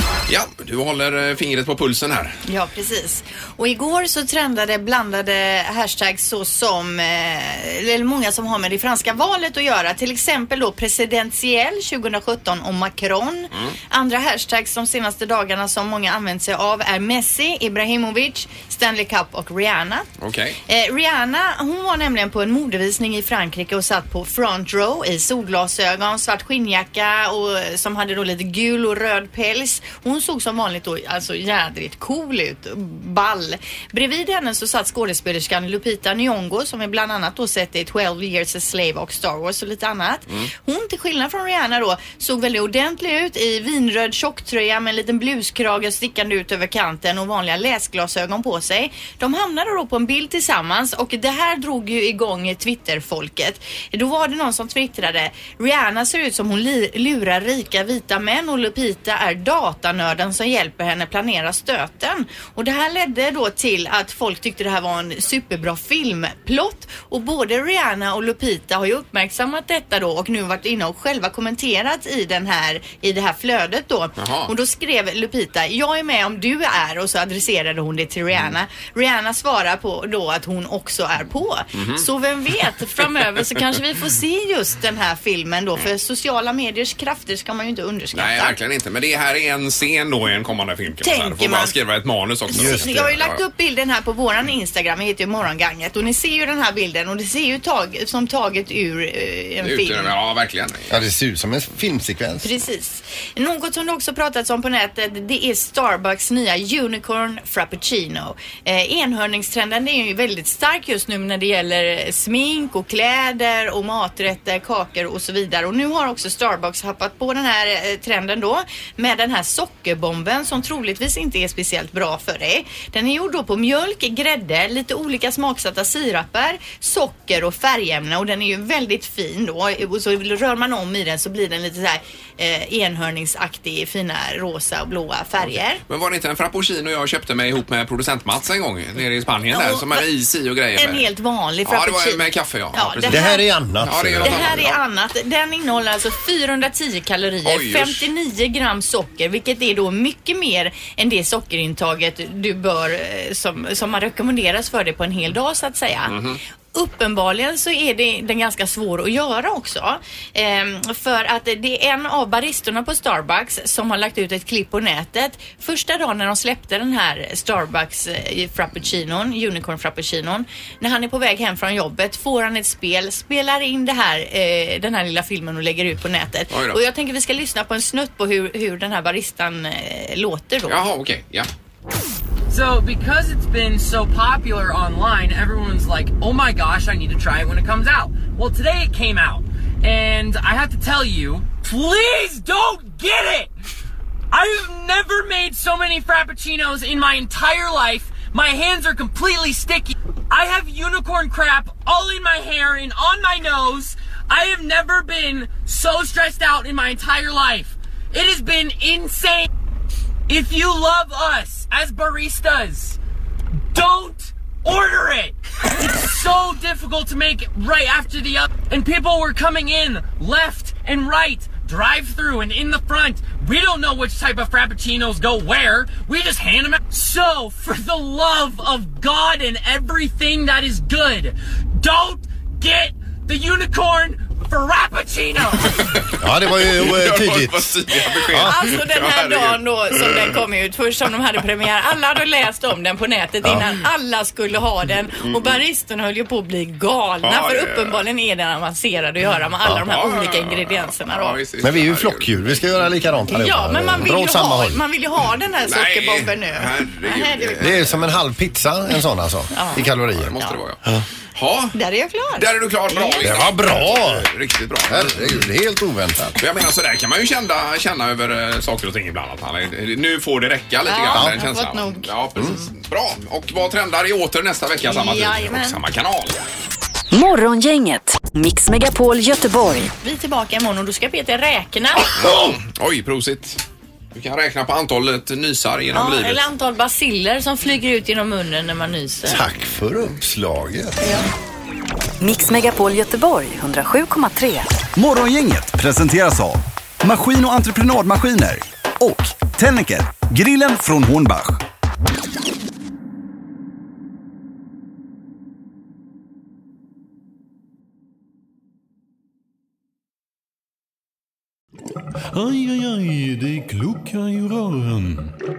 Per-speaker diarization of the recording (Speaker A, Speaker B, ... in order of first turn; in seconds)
Speaker A: 0.3-2.4, 20.2-20.6, 74.2-74.5, 81.8-82.0, 88.1-93.4, 99.6-100.9, 135.9-141.1, 141.7-143.2, 143.8-144.8, 147.4-148.1, 156.1-156.4, 176.5-176.8, 180.7-181.5, 236.7-240.4, 245.2-245.6, 247.2-248.0, 249.7-252.6, 255.7-258.0, 260.2-261.7, 262.4-265.3, 266.4-276.4, 282.1-283.6, 284.1-286.4
Speaker B: 2.5-20.1, 20.7-88.6, 91.0-91.7, 92.5-100.1, 102.4-135.8, 139.5-140.1, 140.8-143.4, 144.2-156.2, 156.7-180.8, 238.0-251.4, 253.3-257.8, 259.5-259.9, 261.7-263.3, 270.9-272.7, 274.8-275.8, 280.0-282.4, 285.9-289.4
Speaker C: 92.5-93.1, 100.9-102.5, 143.1-144.7, 236.2-238.5, 251.6-254.8, 257.6-260.3, 263.2-264.3, 264.9-266.4, 289.2-291.0
Speaker D: 182.5-193.5, 194.3-209.5, 210.3-213.0, 213.7-235.9
Speaker E: 277.1-279.9, 292.2-294.7
Speaker F: 294.9-301.6
Speaker G: 312.3-315.3